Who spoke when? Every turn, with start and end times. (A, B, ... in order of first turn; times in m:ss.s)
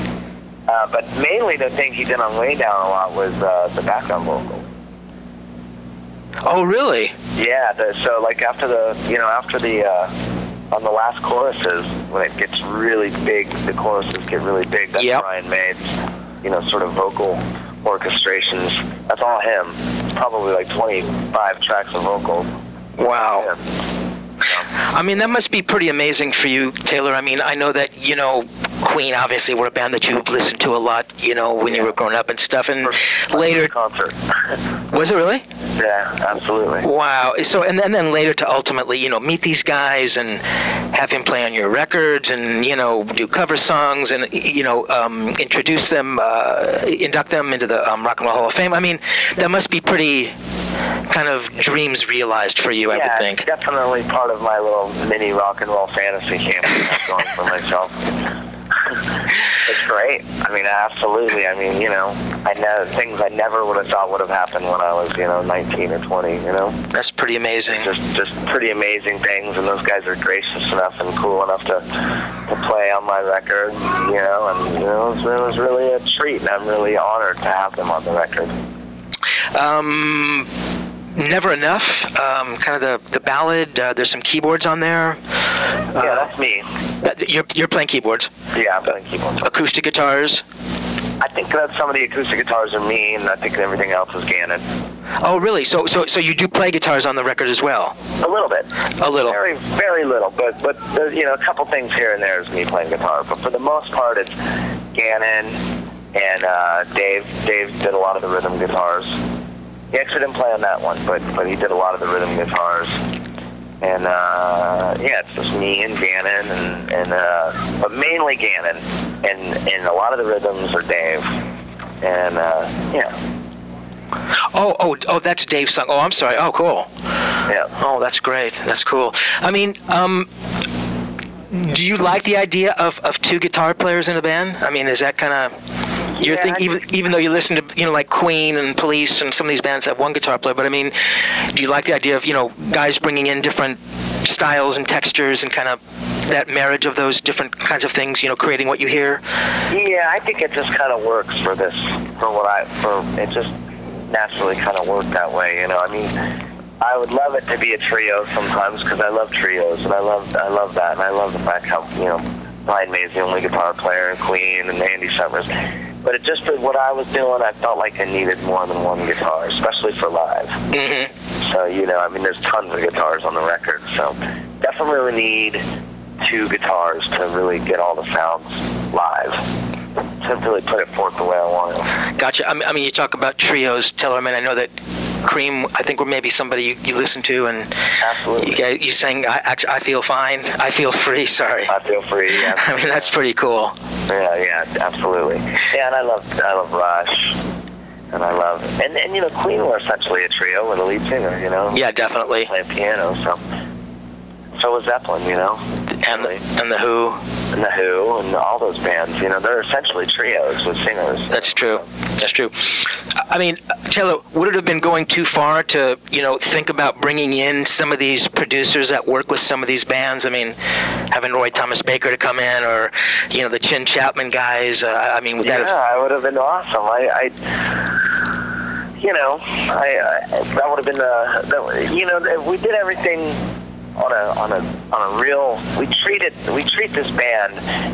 0:00.7-0:04.7 A
0:06.4-0:07.1 B
0:07.4-0:10.1 A
0:10.7-0:15.9 A
0:15.0-0:15.2 B
0:16.4-0:22.5 A
0:23.0-0:23.5 B
0:23.0-0:23.6 A
0:24.8-0:33.7 B
0:31.6-0:31.9 A
0:32.8-0:34.6 A
0:34.9-0:35.4 B
0:35.8-0:36.9 A
0:36.8-0:40.4 B
0:40.9-0:50.3 B
0:51.1-0:53.4 B
0:52.9-0:58.1 A
0:58.7-1:06.8 A
1:06.9-1:07.9 B
1:07.6-1:18.5 A
1:19.5-1:20.5 B
1:21.1-1:25.2 B
1:25.9-1:26.3 B
1:25.9-1:26.7 A
1:27.0-1:28.3 B
1:28.5-1:29.5 A
1:29.4-1:30.4 B
1:31.2-1:34.6 A
1:35.2-1:38.0 B
1:38.2-1:44.3 A
1:39.0-1:39.4 B
1:44.9-1:45.6 A
1:46.1-1:49.2 A
1:49.9-1:53.0 A
1:53.8-2:01.4 A
2:02.0-2:03.1 A
2:04.5-2:06.9 B
2:07.4-2:07.7 A
2:07.8-2:10.3 B
2:11.5-2:15.5 B
2:16.2-2:16.7 A
2:16.2-2:29.2 B
2:29.7-2:33.5 A
2:34.1-2:50.7 A
2:50.7-2:51.1 B
2:51.4-2:55.6 A
2:56.2-2:59.5 A
3:00.2-3:01.9 A
3:02.2-3:04.7 B
3:05.2-3:07.7 B
3:08.0-3:08.6 A
3:08.4-3:11.7 B
3:11.7-3:13.1 A
3:12.3-3:13.8 B
3:14.1-3:17.4 A
3:18.1-3:23.4 A
3:21.7-3:22.5 B
3:24.6-3:26.4 A
3:26.0-3:27.2 B
3:27.5-3:31.8 A
3:31.3-3:40.6 B
3:41.1-3:45.7 B
3:45.4-3:47.8 A
3:49.0-3:53.4 A
3:54.0-3:57.6 A